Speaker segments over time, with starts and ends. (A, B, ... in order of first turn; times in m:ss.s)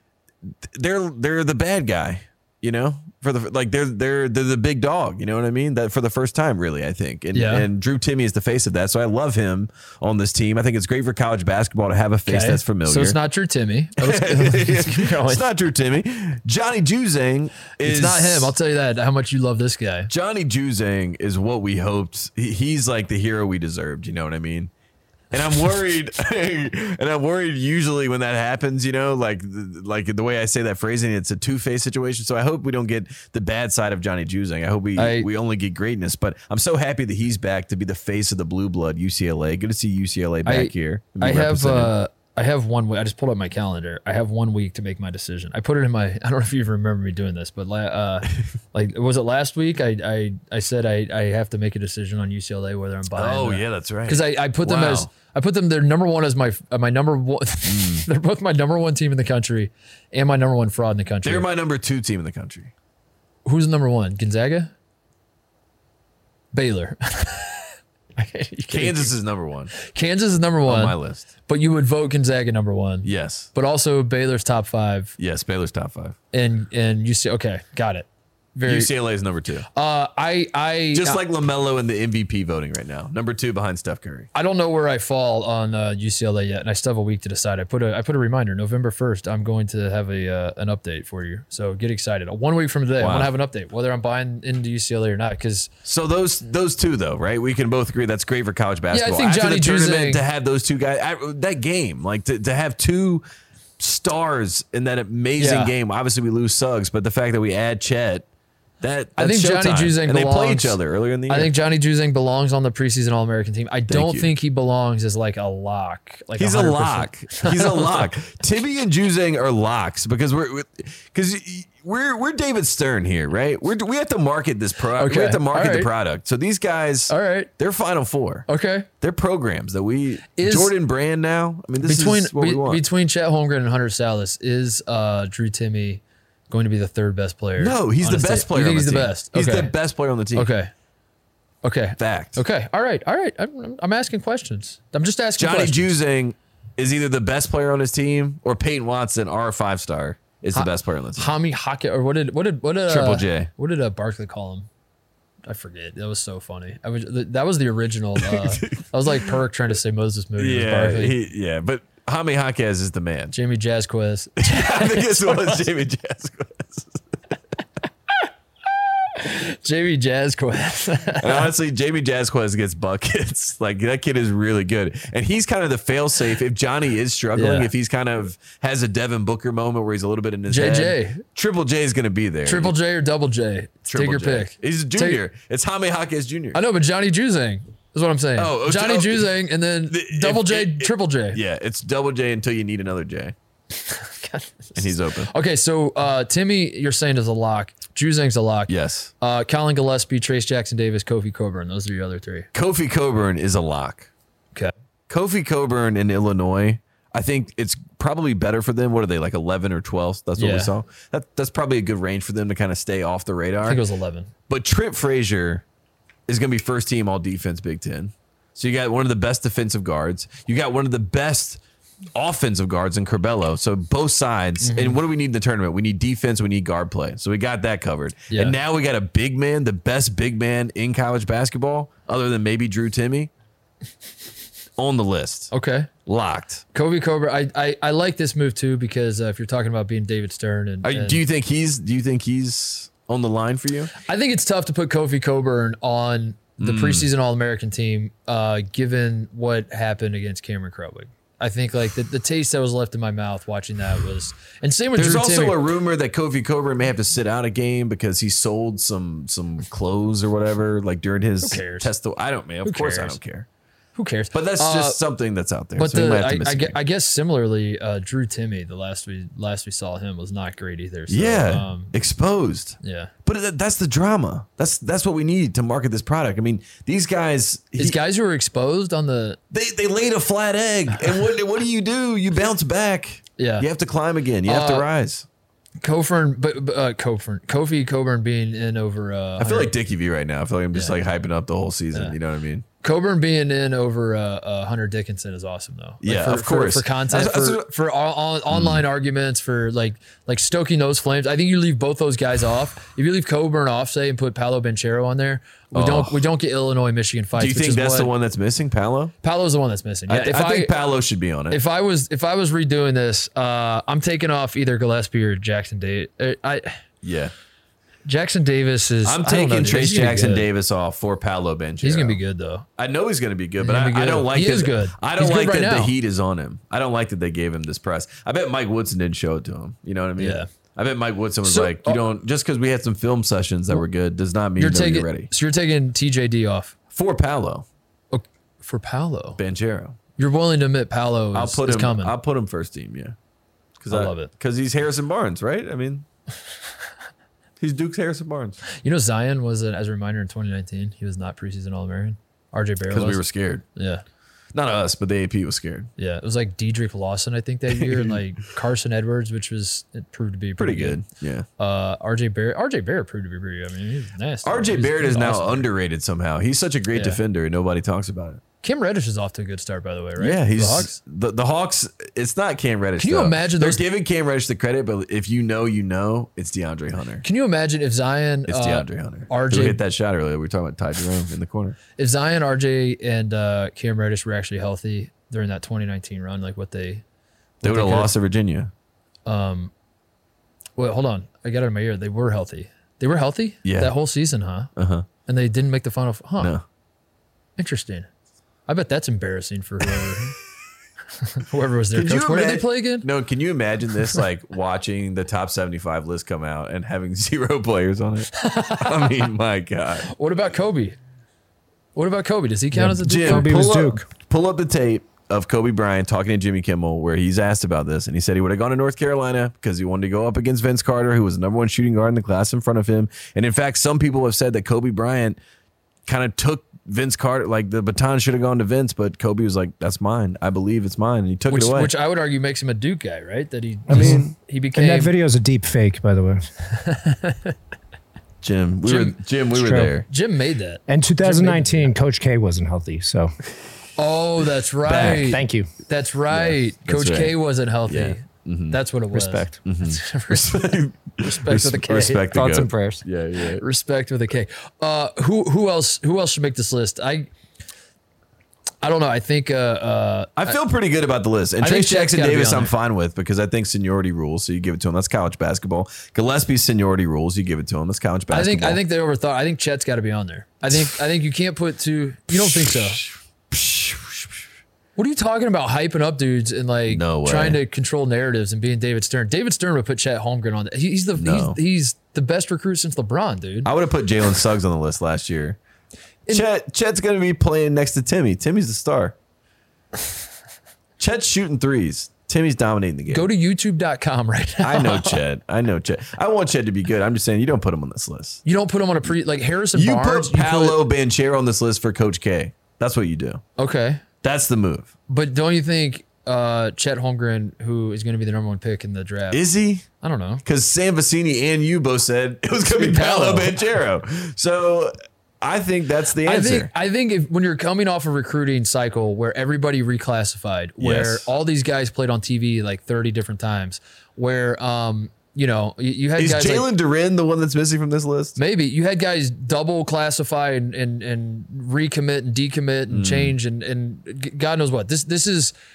0:00.5-0:13.2 A
0:07.3-0:07.7 B
0:12.3-0:15.4 B
0:14.0-0:18.5 A
0:17.8-0:20.1 B
0:20.1-0:24.7 A
0:25.3-0:41.9 A
0:35.0-0:35.3 B
0:40.4-1:01.5 B
0:53.2-0:55.1 A
0:57.6-0:58.1 A
1:01.2-1:02.7 A
1:03.4-1:04.7 B
1:06.5-1:09.1 B
1:08.7-1:09.7 A
1:09.8-1:11.0 B
1:10.7-1:11.3 A
1:11.5-1:15.2 B
1:13.0-1:13.5 A
1:15.2-1:16.2 A
1:16.3-1:18.9 B
1:18.6-1:19.7 A
1:19.7-1:21.2 B
1:20.9-1:24.3 A
1:24.3-1:35.7 B
1:33.0-1:33.3 A
1:35.8-1:43.2 A
1:38.9-1:40.2 B
1:43.8-1:48.3 A
1:45.4-1:45.7 B
1:48.8-1:51.5 A
1:49.2-1:58.1 B
1:53.9-1:54.3 A
1:56.4-2:08.5 A
2:04.9-2:05.9 B
2:07.1-2:07.5 B
2:08.5-2:08.9 B
2:09.0-2:12.8 A
2:10.4-2:10.7 B
2:11.8-2:19.7 B
2:17.6-2:20.5 A
2:20.4-2:20.7 B
2:21.6-2:26.0 B
2:22.0-2:22.4 A
2:25.4-2:31.3 A
2:30.6-2:34.7 B
2:32.9-2:33.5 A
2:35.5-2:41.2 B
2:38.2-2:38.9 A
2:40.4-2:43.3 A
2:43.3-2:45.7 B
2:44.4-2:47.0 A
2:49.1-2:51.5 B
2:51.2-3:02.8 A
2:57.4-2:57.7 B
3:00.5-3:01.2 B
3:02.4-3:05.2 B
3:03.9-3:06.6 A
3:06.5-3:11.4 B
3:08.4-3:09.3 A
3:09.9-3:13.4 A
3:13.7-3:22.5 B
3:14.8-3:15.3 A
3:18.7-3:19.1 A
3:22.5-3:24.1 A
3:25.1-3:33.8 A
3:30.4-3:30.7 B
3:33.6-3:34.3 B
3:34.5-3:35.6 A
3:36.3-3:41.6 A
3:42.2-3:53.3 A
3:44.6-3:45.0 B
3:48.3-3:48.6 B
3:54.8-3:55.5 A
3:55.5-3:55.9 B
3:56.1-3:56.6 A
3:56.7-4:01.2 B
4:00.8-4:03.9 A
4:04.0-4:15.6 B
4:06.6-4:07.1 A
4:15.0-4:23.5 A
4:21.4-4:21.9 B
4:22.6-4:23.2 B
4:24.0-4:25.0 B
4:24.3-4:26.8 A
4:25.8-4:31.9 B
4:31.1-4:38.0 A
4:32.8-4:33.1 B
4:37.8-4:39.4 B
4:39.5-4:45.3 A
4:43.4-4:43.7 B
4:44.4-4:44.9 B
4:45.8-4:49.7 B
4:49.4-4:52.6 A
4:52.8-5:08.1 B
4:56.0-4:57.7 A
4:58.5-4:58.8 A
5:05.7-5:06.2 A
5:07.4-5:09.1 A
5:09.2-5:10.8 B
5:10.1-5:11.6 A
5:11.5-5:16.8 B
5:17.0-5:17.3 A
5:18.0-5:20.5 B
5:19.0-5:22.2 A
5:21.8-5:22.7 B
5:22.8-5:35.3 A
5:23.6-5:25.9 B
5:30.2-5:30.5 B
5:31.4-5:32.0 B
5:34.6-5:36.8 B
5:36.9-5:37.7 A
5:38.1-5:39.4 B
5:39.4-5:40.0 A
5:40.2-5:42.1 B
5:41.3-5:43.2 A
5:43.8-5:46.1 A
5:43.9-5:44.3 B
5:47.6-5:48.6 A
5:48.8-5:53.2 B
5:52.9-5:53.6 A
5:53.8-5:54.0 B
5:54.5-5:55.9 A
5:56.0-6:01.0 B
5:57.8-5:58.2 A
6:00.6-6:01.5 A
6:01.6-6:05.7 B
6:04.4-6:08.4 A
6:06.9-6:07.2 B
6:08.6-6:11.0 B
6:10.2-6:17.2 A
6:13.0-6:13.8 B
6:17.2-6:19.8 B
6:18.5-6:21.8 A
6:22.0-6:27.0 B
6:27.6-6:28.1 B
6:27.6-6:28.7 A
6:29.3-6:29.7 B
6:30.8-6:34.7 B
6:33.6-6:33.9 A
6:34.8-6:35.1 A
6:35.3-6:36.6 B
6:37.6-6:38.1 B
6:38.7-6:40.4 B
6:41.2-6:43.1 B
6:41.9-6:50.1 A
6:48.4-6:49.3 B
6:50.1-6:51.0 B
6:52.0-6:53.7 B
6:52.7-6:54.0 C
6:53.0-7:05.4 A
7:06.1-7:11.9 A
7:11.5-7:15.1 B
7:13.9-7:16.5 C
7:13.9-7:14.3 A
7:16.7-7:17.6 B
7:18.4-7:20.1 A
7:18.8-7:19.2 B
7:19.6-7:19.9 C
7:20.1-7:21.9 B
7:20.9-7:23.3 C
7:24.0-7:32.3 B
7:24.8-7:25.4 A
7:25.0-7:25.7 C
7:26.3-7:28.8 A
7:29.1-7:29.6 C
7:29.6-7:33.6 A
7:32.3-7:33.0 C
7:33.6-7:37.3 B
7:38.8-7:40.6 B
7:40.4-7:48.8 A
7:41.6-7:42.7 B
7:48.3-7:53.0 B
7:52.3-7:54.4 A
7:55.0-8:03.7 B
7:56.9-7:57.6 A
8:01.2-8:01.6 A
8:03.6-8:05.6 A
8:06.3-8:09.2 A
8:11.0-8:13.3 A
8:13.1-8:15.2 B
8:14.6-8:18.4 A
8:18.4-8:20.8 B
8:19.7-8:23.4 A
8:23.6-8:24.0 B
8:24.2-8:24.9 A
8:25.1-8:29.4 B
8:29.3-8:29.9 A
8:30.0-8:30.4 B
8:30.4-8:36.7 A
8:32.6-8:33.6 B
8:36.2-8:46.7 B
8:40.8-8:41.3 A
8:46.2-8:48.4 A
8:48.4-8:55.5 B
8:52.9-8:53.4 A